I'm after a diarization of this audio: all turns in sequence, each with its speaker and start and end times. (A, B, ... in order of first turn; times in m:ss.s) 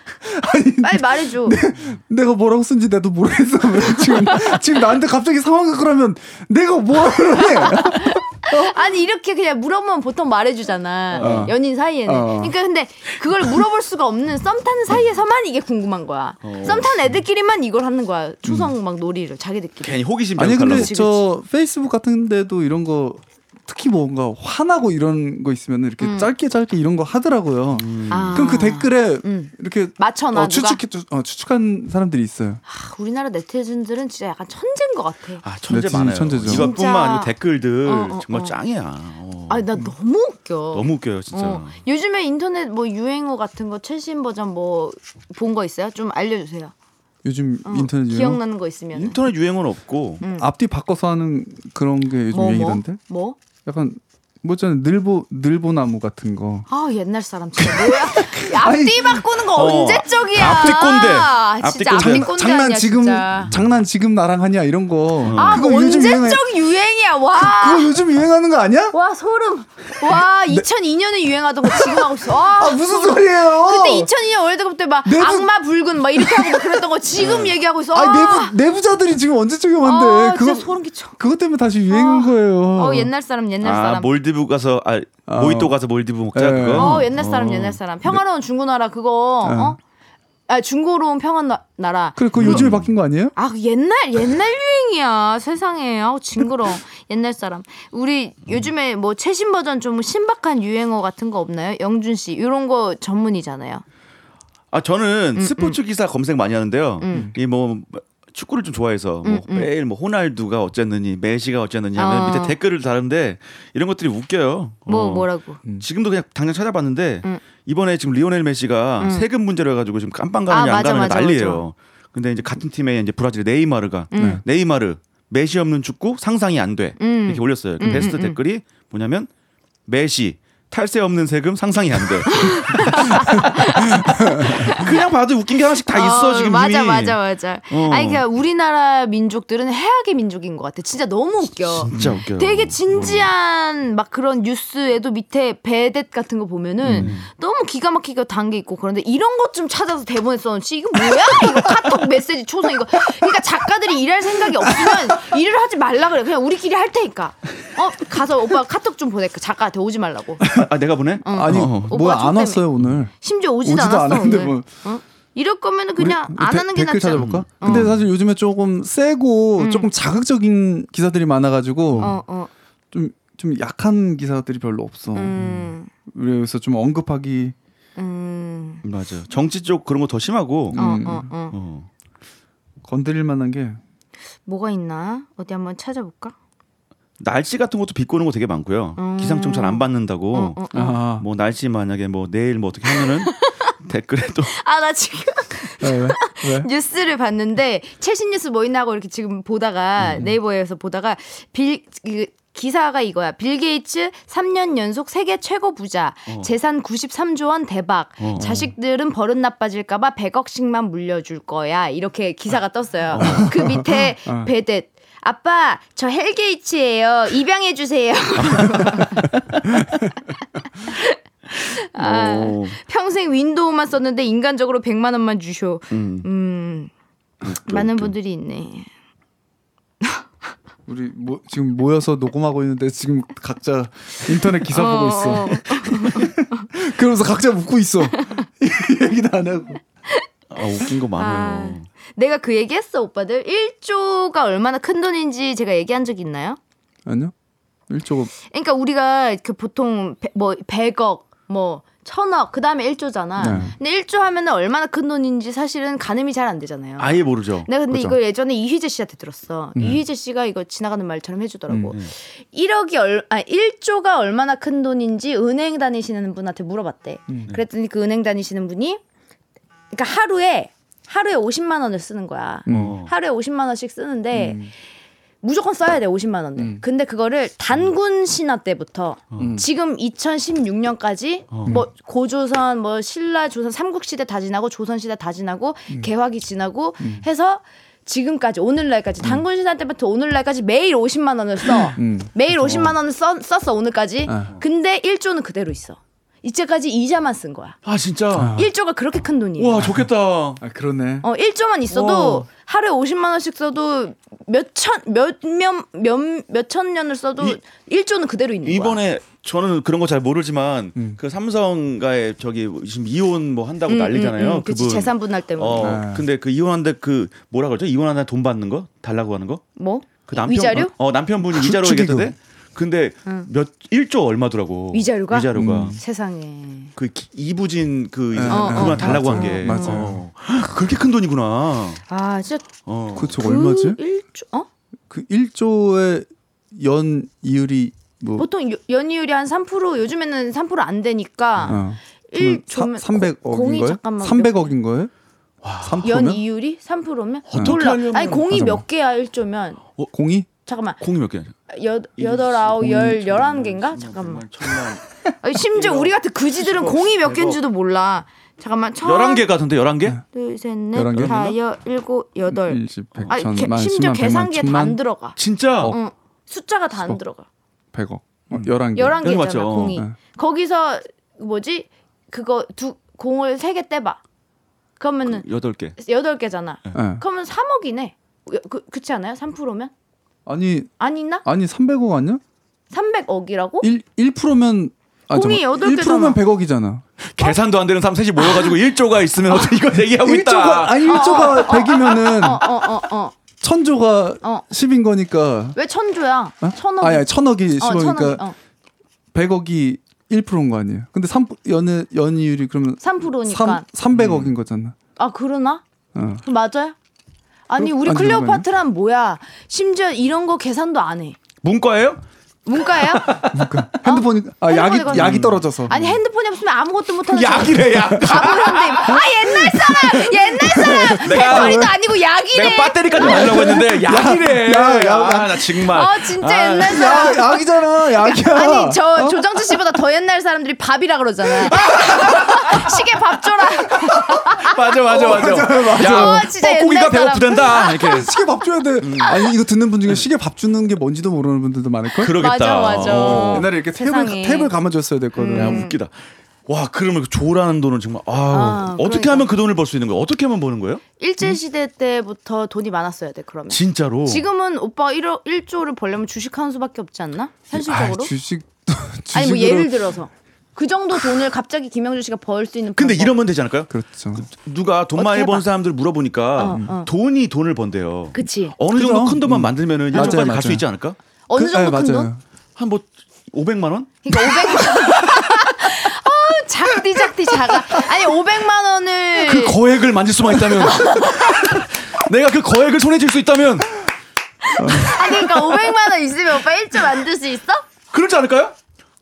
0:00.2-0:08.8 A
0:00.8-0:01.6 B
0:04.0-0:04.6 B
0:07.3-0:21.2 B
0:11.2-0:11.5 C
0:11.2-0:12.6 A
0:16.4-0:17.1 C
0:19.8-0:20.9 C
0:20.4-0:32.6 A
0:26.0-0:26.3 B
0:27.7-0:28.5 C
0:28.1-0:30.8 B
0:32.7-0:35.4 B
0:35.4-0:39.6 C
0:35.7-0:36.7 A
0:36.5-0:37.3 B
0:37.8-0:38.6 B
0:39.5-0:46.7 B
0:40.7-0:41.8 C
0:47.2-0:48.4 A
0:47.6-0:49.2 B
0:48.9-0:50.2 C
0:50.2-0:50.5 B
0:50.4-0:53.0 A
0:52.3-0:53.4 B
0:53.6-0:56.7 A
0:56.7-1:03.5 B
0:58.2-0:59.2 A
0:59.5-1:02.3 C
1:02.0-1:06.5 A
1:05.2-1:05.6 C
1:05.4-1:08.0 B
1:07.3-1:09.0 A
1:08.9-1:18.6 B
1:10.1-1:10.7 A
1:11.6-1:14.1 A
1:15.1-1:15.5 A
1:16.1-1:16.8 A
1:17.2-1:17.6 C
1:17.9-1:23.1 A
1:19.8-1:21.2 B
1:21.9-1:24.1 B
1:23.6-1:27.8 C
1:25.3-1:25.7 A
1:26.3-1:27.1 A
1:26.8-1:29.8 B
1:29.4-1:29.8 A
1:30.5-1:32.7 B
1:32.2-1:33.3 A
1:32.4-1:32.9 C
1:33.4-1:43.8 B
1:44.7-2:09.3 C
1:45.4-1:45.8 B
1:47.0-1:47.3 B
1:49.2-1:49.7 B
1:52.0-1:52.6 B
1:54.9-1:55.6 B
1:59.0-1:59.3 B
2:00.5-2:01.6 B
2:04.1-2:04.4 B
2:04.2-2:04.4 A
2:07.0-2:08.4 B
2:09.9-2:13.2 C
2:12.3-2:14.9 B
2:13.8-2:14.8 A
2:14.6-2:17.2 C
2:15.8-2:40.5 B
2:17.7-2:18.2 C
2:21.9-2:23.3 C
2:21.9-2:22.2 A
2:26.8-2:27.2 A
2:26.9-2:27.3 C
2:34.6-2:35.0 A
2:40.4-2:40.7 A
2:40.5-2:41.9 C
2:41.2-2:42.6 B
2:41.3-2:43.1 A
2:43.2-2:47.9 B
2:43.6-2:44.7 A
2:46.0-2:52.2 A
2:47.1-2:48.0 C
2:49.6-2:49.9 B
2:51.9-2:52.2 C
2:52.0-2:52.5 B
2:52.9-2:55.4 A
2:55.2-2:55.9 B
2:56.1-2:57.6 A
2:58.0-2:58.8 B
2:58.8-3:00.8 C
3:00.7-3:01.3 A
3:00.8-3:01.6 B
3:01.5-3:01.9 C
3:02.8-3:03.8 A
3:04.5-3:06.4 B
3:07.2-3:14.6 C
3:09.0-3:11.0 B
3:10.7-3:11.3 A
3:12.9-3:13.7 B
3:14.5-3:39.4 B
3:15.8-3:16.7 A
3:20.0-3:20.3 C
3:28.2-3:28.5 C
3:28.4-3:28.7 A
3:33.1-3:33.6 C
3:33.2-3:34.5 A
3:38.4-3:39.7 C
3:40.8-3:46.9 B
3:42.0-3:42.8 C
3:45.9-3:46.3 C
3:47.4-3:48.1 C
3:47.5-3:48.9 B
3:50.9-3:59.8 A
3:54.7-3:56.7 B
3:58.1-3:58.5 B
4:00.5-4:01.9 C
4:00.9-4:06.6 B
4:07.1-4:07.3 A
4:07.9-4:08.3 A
4:08.4-4:29.0 B
4:13.4-4:13.8 A
4:17.0-4:17.7 C
4:17.9-4:18.2 A
4:29.9-4:34.6 B
4:32.7-4:33.0 A
4:32.7-4:33.1 C
4:34.3-4:34.7 A
4:35.4-4:57.8 B
4:36.6-4:36.8 A
4:39.4-4:39.7 A
4:41.5-4:41.8 C
4:52.0-4:52.9 A
4:54.3-4:54.5 A
4:57.8-4:58.6 C
4:58.4-4:58.7 A
4:58.6-4:59.9 B
4:59.6-5:00.6 C
5:00.6-5:01.2 A
5:01.2-5:09.0 B
5:01.9-5:02.5 C
5:08.6-5:19.6 C
5:13.9-5:16.0 B
5:15.8-5:16.3 A
5:19.8-5:20.9 B
5:20.2-5:26.0 C
5:21.5-5:22.3 A
5:24.9-5:26.9 B
5:25.6-5:26.0 A
5:27.0-5:32.0 C
5:28.3-5:30.2 A
5:28.5-5:30.2 B
5:32.1-5:34.7 B
5:32.9-5:33.4 C
5:33.2-5:34.0 A
5:35.1-5:38.5 A
5:38.4-5:44.7 B
5:41.7-5:45.1 A
5:45.6-5:46.1 C
5:45.8-5:46.4 A
5:46.0-5:49.8 B
5:47.5-5:48.6 C
5:47.5-5:47.8 A
5:48.5-5:48.8 A
5:50.1-5:50.5 A
5:50.6-5:51.0 B
5:51.0-5:51.6 C
5:51.7-5:54.5 B
5:52.2-5:55.0 C
5:52.8-5:53.3 A
5:55.4-5:59.5 B
5:55.7-5:57.6 C
5:59.0-6:00.2 C
6:00.3-6:07.5 B
6:00.9-6:01.4 A
6:01.1-6:01.6 C
6:02.5-6:05.0 A
6:05.4-6:06.0 C
6:07.9-6:09.2 A
6:08.5-6:10.0 C
6:09.0-6:14.2 B
6:15.0-6:15.4 B
6:15.3-6:16.0 C
6:16.0-6:19.9 B
6:17.0-6:17.2 A
6:20.5-6:20.9 A
6:21.0-6:21.4 B
6:21.4-6:22.4 A
6:22.9-6:23.9 B
6:23.8-6:27.0 A
6:25.3-6:26.4 B
6:27.2-6:31.5 C
6:28.4-6:28.7 B
6:29.6-6:32.7 A
6:31.0-6:33.4 B
6:33.6-6:35.8 A
6:35.8-6:38.6 B
6:36.6-6:38.4 A
6:39.3-6:45.0 A
6:43.0-6:43.8 B
6:44.1-6:44.5 C
6:45.2-6:45.8 B
6:46.2-6:46.4 A
6:46.4-6:47.0 B
6:47.7-6:51.4 B
6:47.8-6:48.7 A
6:51.6-6:52.2 C
6:52.7-6:53.5 B
6:53.0-6:53.5 C
6:53.5-6:56.0 A
6:54.0-7:03.8 B
6:55.1-6:56.2 C
6:57.3-6:59.2 C
6:57.8-6:58.4 A
6:59.1-7:01.9 A
7:01.2-7:02.0 C
7:02.5-7:07.4 C
7:03.2-7:05.7 A
7:05.8-7:18.3 B
7:06.8-7:09.4 A
7:11.8-7:12.6 C
7:14.1-7:18.3 C
7:15.1-7:16.5 A
7:18.0-7:22.4 A
7:19.0-7:19.5 C
7:22.2-7:23.7 C
7:22.3-7:24.7 B
7:23.0-7:25.8 A
7:25.4-7:26.0 B
7:25.5-7:31.0 C
7:28.5-7:29.5 B
7:31.2-7:38.3 B
7:33.7-7:34.5 C
7:37.7-7:40.1 A
7:39.3-7:43.3 B
7:43.0-7:51.2 C
7:43.9-7:44.5 A
7:45.2-7:45.7 B
7:46.6-7:47.1 B
7:46.6-7:46.9 A
7:48.3-7:48.8 B
7:48.9-7:50.8 A
7:50.1-7:50.5 B
7:51.5-7:52.3 B
7:51.6-7:52.4 A
7:52.8-7:54.8 C
7:54.2-7:59.8 B
7:59.4-8:04.0 C
8:00.6-8:01.8 B
8:04.7-8:07.8 B
8:04.8-8:05.2 A
8:08.1-8:08.8 C